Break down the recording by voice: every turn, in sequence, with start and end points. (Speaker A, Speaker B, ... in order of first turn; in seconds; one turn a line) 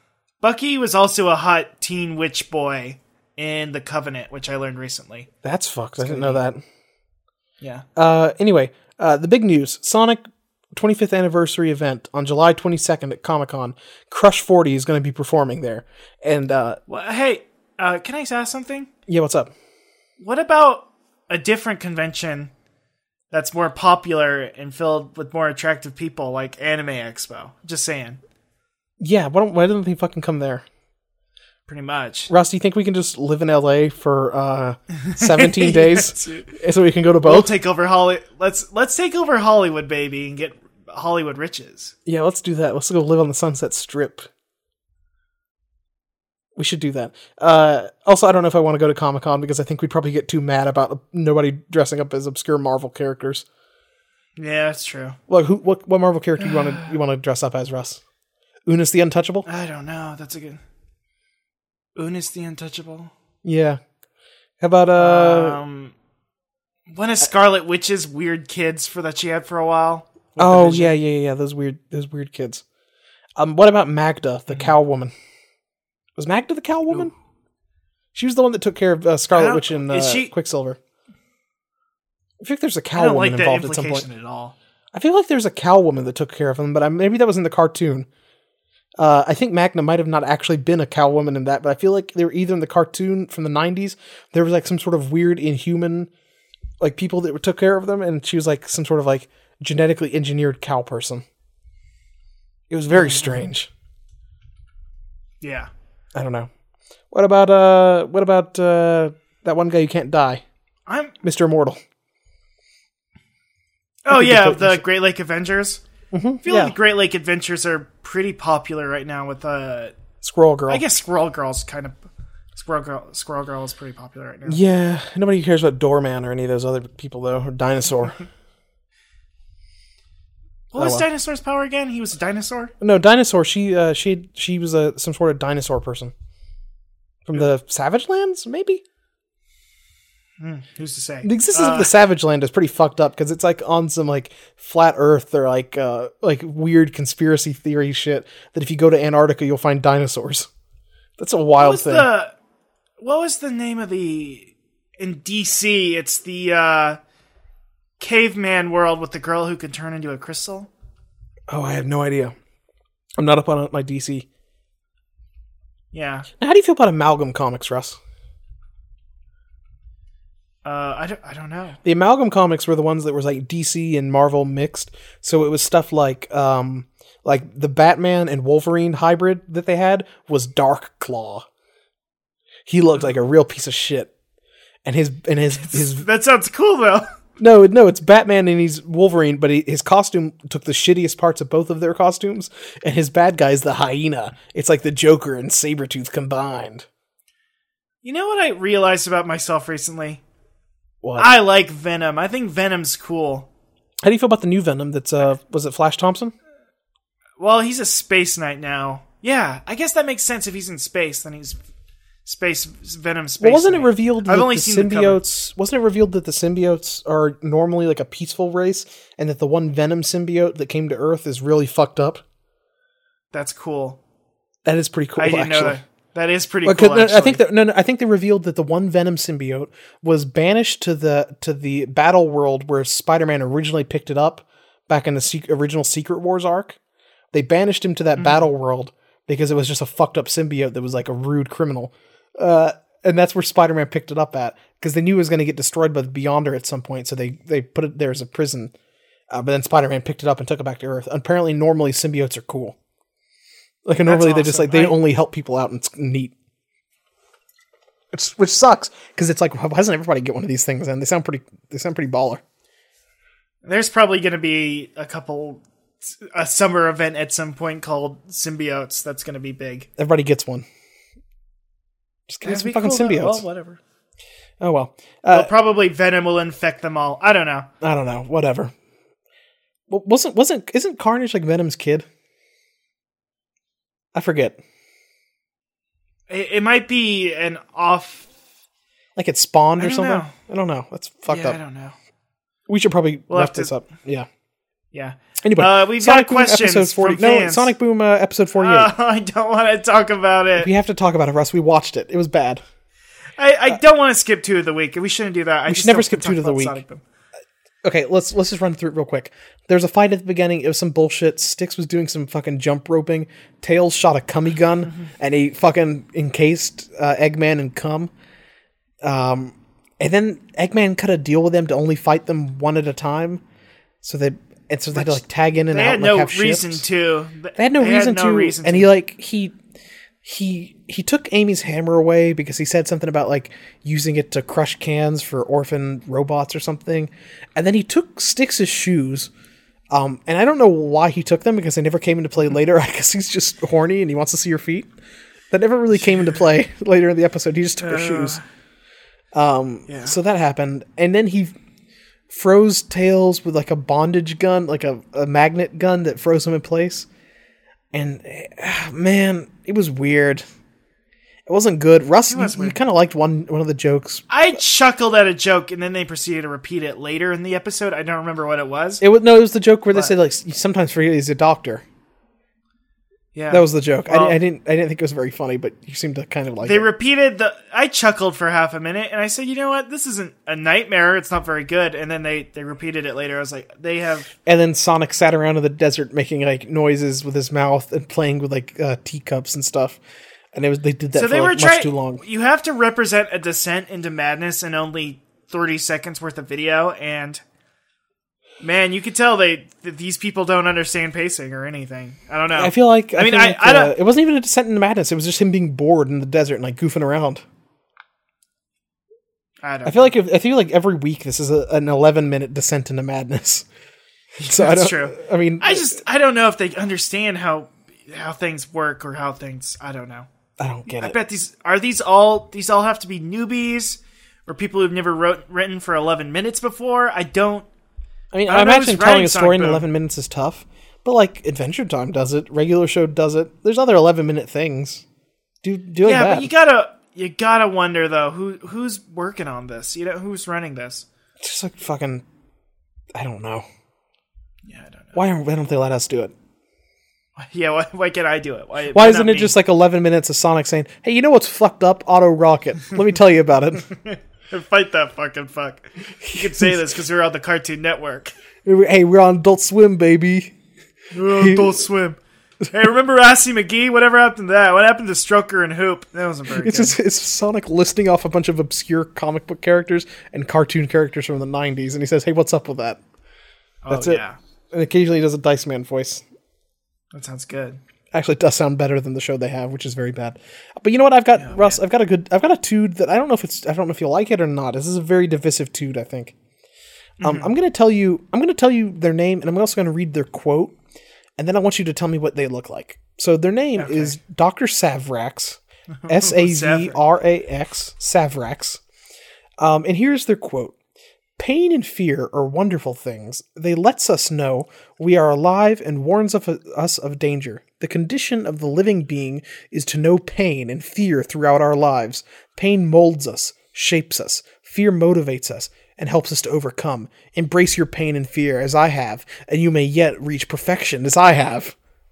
Speaker A: 0.4-5.3
Speaker B: 5.4-6.6
Speaker A: 6.0-6.4
Speaker B: 8.0-10.2
Speaker B: 10.7-16.8
Speaker A: 16.9-18.9
Speaker B: 19.1-19.5
Speaker A: 20.2-22.5
Speaker A: 23.3-28.2
Speaker B: 29.0-30.6
Speaker A: 31.7-32.3
Speaker B: 32.3-37.5
Speaker A: 35.0-36.5
Speaker A: 37.2-41.9
Speaker B: 42.1-44.3
Speaker B: 46.6-53.5
Speaker A: 54.4-55.2
Speaker B: 55.3-58.0
Speaker A: 56.4-56.9
Speaker B: 58.7-59.5
Speaker A: 59.5-60.6
Speaker A: 62.0-63.1
Speaker B: 63.4-63.8
Speaker B: 64.6-65.6
Speaker A: 65.0-66.0
Speaker A: 66.9-71.0
Speaker B: 70.4-72.6
Speaker B: 73.4-75.1
Speaker B: 76.2-77.1
Speaker B: 78.1-80.8
Speaker A: 79.3-80.3
Speaker B: 82.4-84.1
Speaker A: 83.0-84.5
Speaker B: 84.9-88.1
Speaker B: 89.0-96.1
Speaker B: 96.8-101.2
Speaker B: 102.7-103.7
Speaker A: 102.9-103.5
Speaker A: 105.4-105.7
Speaker B: 106.1-106.5
Speaker B: 107.1-110.4
Speaker A: 110.9-111.2
Speaker B: 111.2-111.8
Speaker A: 114.0-115.8
Speaker B: 114.1-114.8
Speaker B: 116.1-116.8
Speaker A: 116.4-120.0
Speaker B: 120.2-120.8
Speaker A: 120.7-122.0
Speaker A: 122.5-124.6
Speaker B: 124.5-128.2
Speaker A: 130.7-132.7
Speaker B: 130.8-131.1
Speaker B: 132.8-136.1
Speaker B: 137.3-138.8
Speaker A: 140.4-141.9
Speaker B: 141.2-150.5
Speaker B: 151.2-152.1
Speaker A: 151.6-152.3
Speaker A: 153.0-157.0
Speaker A: 158.0-160.7
Speaker B: 161.5-162.3
Speaker B: 163.2-164.3
Speaker A: 165.9-166.3
Speaker B: 166.4-168.0
Speaker A: 170.7-171.8
Speaker B: 171.8-181.4
Speaker B: 182.7-184.1
Speaker B: 184.8-186.1
Speaker A: 185.6-187.1
Speaker B: 187.4-196.9
Speaker A: 198.0-200.2
Speaker B: 201.0-201.3
Speaker A: 201.2-203.5
Speaker B: 204.0-206.3
Speaker A: 207.4-211.6
Speaker A: 212.2-215.2
Speaker B: 213.4-222.2
Speaker A: 223.3-224.0
Speaker B: 224.7-225.8
Speaker A: 225.2-227.4
Speaker B: 226.7-236.8
Speaker B: 237.3-248.7
Speaker A: 238.2-238.5
Speaker B: 249.3-252.8
Speaker B: 253.9-256.3
Speaker A: 254.0-255.0
Speaker B: 258.1-262.4
Speaker A: 263.6-269.9
Speaker B: 270.0-270.7
Speaker B: 272.3-273.4
Speaker A: 272.4-273.8
Speaker B: 274.6-275.5
Speaker A: 275.3-277.7
Speaker B: 277.8-278.7
Speaker B: 279.9-282.1
Speaker B: 284.1-284.6
Speaker A: 286.3-288.3
Speaker B: 289.2-291.6
Speaker A: 289.8-290.4
Speaker A: 291.3-292.0
Speaker B: 292.7-294.3
Speaker A: 293.3-293.7
Speaker A: 294.9-297.7
Speaker B: 295.4-298.9
Speaker A: 298.6-300.7
Speaker B: 300.6-302.6
Speaker A: 303.4-307.0
Speaker B: 305.7-306.8
Speaker B: 307.8-318.1
Speaker B: 319.0-323.4
Speaker B: 324.0-326.8
Speaker A: 324.9-328.9
Speaker B: 327.6-329.6
Speaker B: 330.2-339.3
Speaker B: 339.9-344.9
Speaker B: 345.5-348.4
Speaker A: 346.0-346.4
Speaker A: 347.8-348.4
Speaker B: 349.3-351.5
Speaker A: 349.9-350.2
Speaker B: 352.3-357.1
Speaker B: 357.9-360.4
Speaker B: 361.5-364.2
Speaker A: 362.3-362.8
Speaker A: 364.3-369.0
Speaker B: 369.0-371.8
Speaker A: 373.3-374.4
Speaker B: 373.5-376.9
Speaker A: 376.6-384.3
Speaker B: 384.5-390.0
Speaker B: 390.5-392.2
Speaker A: 391.1-397.4
Speaker A: 398.6-404.0
Speaker B: 402.6-407.4
Speaker A: 409.6-410.1
Speaker B: 409.9-413.7
Speaker A: 414.4-420.3
Speaker B: 414.5-416.0
Speaker B: 420.6-421.2
Speaker A: 420.9-427.7
Speaker B: 428.3-435.0
Speaker A: 428.5-429.9
Speaker B: 435.6-436.5
Speaker A: 436.0-441.1
Speaker B: 441.4-442.2
Speaker B: 443.1-443.7
Speaker A: 444.6-445.2
Speaker B: 445.1-446.3
Speaker A: 447.4-449.5
Speaker B: 448.9-453.9
Speaker A: 453.9-458.3
Speaker B: 456.2-456.9
Speaker B: 458.6-460.5
Speaker A: 461.1-467.0
Speaker B: 461.2-461.8
Speaker B: 466.5-473.0
Speaker A: 473.8-474.4
Speaker B: 473.9-476.2
Speaker A: 477.1-477.8
Speaker B: 478.1-486.3
Speaker A: 481.4-481.8
Speaker A: 487.2-487.5
Speaker B: 487.2-490.8
Speaker B: 491.4-498.8
Speaker A: 493.8-494.2
Speaker A: 496.0-497.0
Speaker B: 499.6-500.8
Speaker B: 501.4-521.8